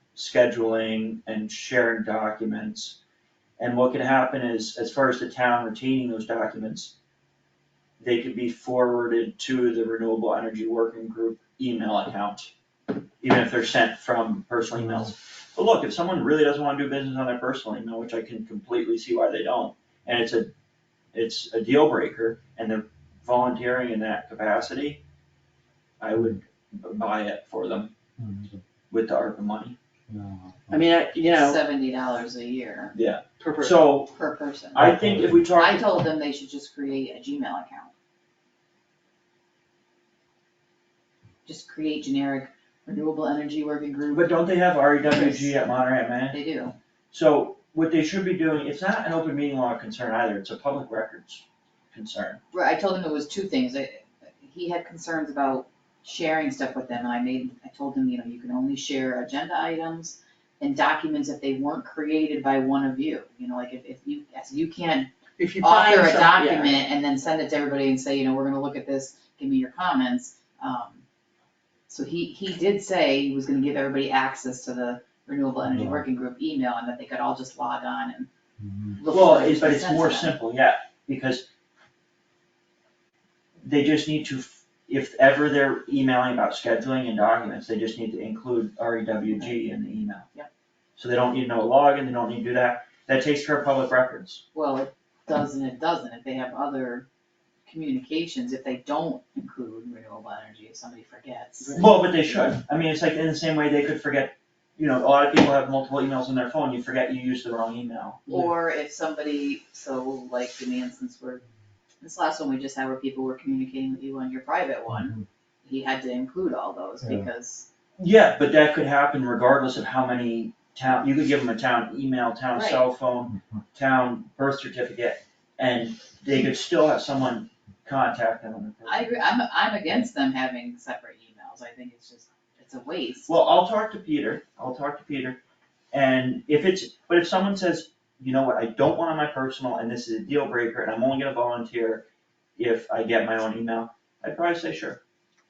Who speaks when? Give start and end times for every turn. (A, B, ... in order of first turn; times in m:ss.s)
0:00.2-0:03.0 A
0:03.6-0:07.0 A
0:08.0-0:12.5 A
0:13.2-0:20.5 A
0:14.8-0:15.0 B
0:21.1-0:25.0 A
0:26.0-0:27.9 A
0:28.2-0:28.6 B
0:28.9-0:29.8 A
0:30.1-0:30.9 B
0:30.7-0:31.6 C
0:31.3-0:33.0 D
0:32.9-0:34.1 A
0:33.4-0:33.8 C
0:34.1-0:34.9 D
0:34.7-0:35.9 A
0:34.8-0:35.5 B
0:35.5-0:37.9 D
0:41.5-0:44.4 D
0:44.1-0:46.4 A
0:45.0-0:45.6 D
0:46.3-0:46.8 D
0:47.1-0:52.4 A
0:52.5-1:11.0 D
1:05.4-1:06.8 C
1:11.9-1:18.3 D
1:15.6-1:16.1 B
1:18.6-1:19.0 B
1:19.0-1:20.4 D
1:19.1-1:21.5 A
1:23.6-1:30.3 A
1:29.3-1:29.6 D
1:31.0-1:34.4 A
1:34.5-1:37.1 D
1:37.7-1:41.8 D
1:41.8-1:48.2 A
1:48.3-1:51.4 D
1:52.0-1:57.7 D
1:54.9-1:55.2 B
1:57.0-1:57.3 B
1:58.0-2:09.1 A
2:02.5-2:02.8 D
2:08.9-2:13.4 D
2:13.3-2:15.4 A
2:15.9-2:22.0 A
2:22.6-2:25.0 A